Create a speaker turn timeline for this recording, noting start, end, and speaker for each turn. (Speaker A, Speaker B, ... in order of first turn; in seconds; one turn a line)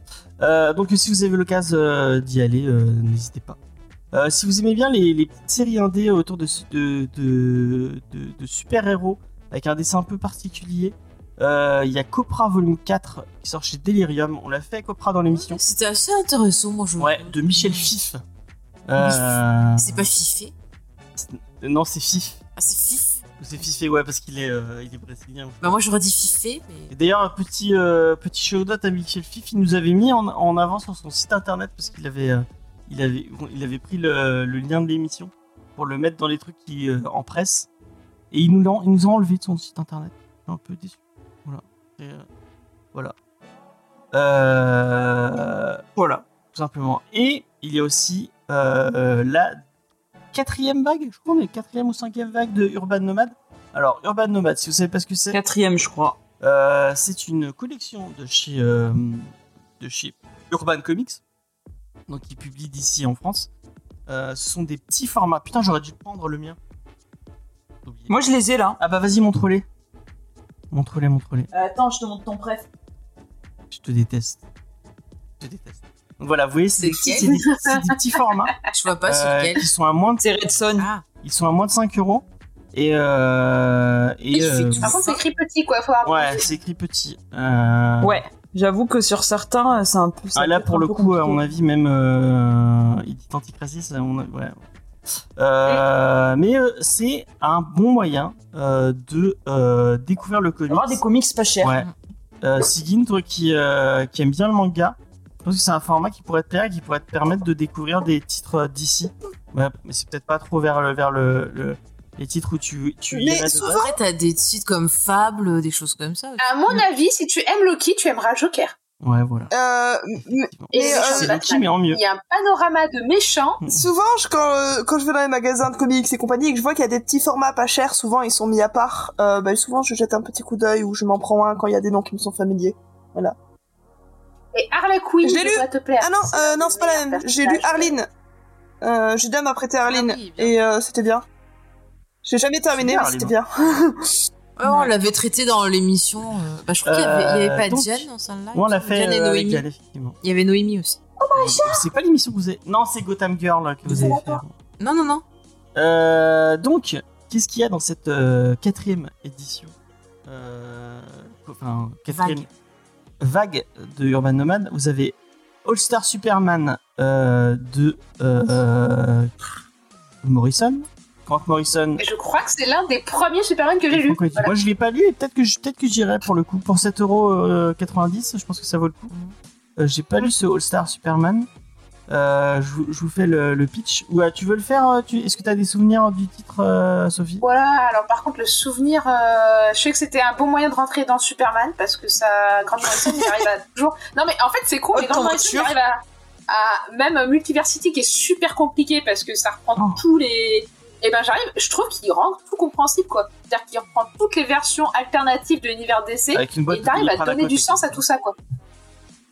Speaker A: 0.4-3.6
Speaker A: 4.1-15.6
Speaker B: 15.3-17.9
Speaker A: 17.0-18.2
Speaker A: 18.9-20.1
Speaker B: 19.0-20.5
Speaker A: 21.1-22.4
Speaker B: 22.6-23.2
Speaker A: 23.4-25.7
Speaker B: 25.6-26.9
Speaker A: 26.9-37.7
Speaker A: 38.3-42.2
Speaker A: 44.1-45.8
Speaker C: 46.0-46.2
Speaker A: 46.5-49.6
Speaker A: 50.3-55.4
Speaker C: 55.3-56.2
Speaker A: 56.4-61.2
Speaker A: 62.1-63.5
Speaker A: 64.1-66.6
Speaker A: 67.8-68.2
Speaker C: 68.1-68.8
Speaker A: 68.8-69.6
Speaker A: 70.7-71.5
Speaker C: 71.5-72.7
Speaker A: 73.7-74.4
Speaker A: 75.4-80.3
Speaker B: 76.7-77.5
Speaker D: 76.8-77.3
Speaker B: 78.6-79.7
Speaker C: 80.2-80.9
Speaker B: 80.8-81.0
Speaker A: 81.2-85.0
Speaker B: 84.3-85.2
Speaker D: 84.8-86.5
Speaker A: 86.0-88.2
Speaker C: 88.0-91.4
Speaker A: 90.3-94.5
Speaker A: 95.4-101.0
Speaker C: 100.7-101.7
Speaker A: 101.6-101.9
Speaker A: 102.4-113.8
Speaker E: 113.1-114.0
Speaker B: 113.7-116.5
Speaker D: 116.4-118.7
Speaker A: 119.0-119.5
Speaker E: 119.5-121.3
Speaker A: 120.3-122.0
Speaker D: 120.7-123.6
Speaker E: 123.7-133.3
Speaker D: 134.5-137.9
Speaker E: 135.2-138.1
Speaker E: 138.8-141.2
Speaker B: 139.8-140.6
Speaker E: 142.2-144.2
Speaker A: 142.7-143.3
Speaker B: 144.6-149.6
Speaker A: 146.8-150.2
Speaker B: 150.2-151.0
Speaker E: 151.2-151.8
Speaker A: 151.3-154.4
Speaker B: 153.8-155.2
Speaker E: 153.9-154.2
Speaker A: 155.7-159.7
Speaker A: 160.3-162.5
Speaker B: 162.1-162.5
Speaker A: 163.2-169.3
Speaker A: 170.2-172.0
Speaker D: 172.0-174.5
Speaker A: 173.9-179.1
Speaker A: 179.8-181.5
Speaker A: 182.1-187.4
Speaker D: 187.4-208.3
Speaker C: 194.9-195.8
Speaker A: 206.3-208.0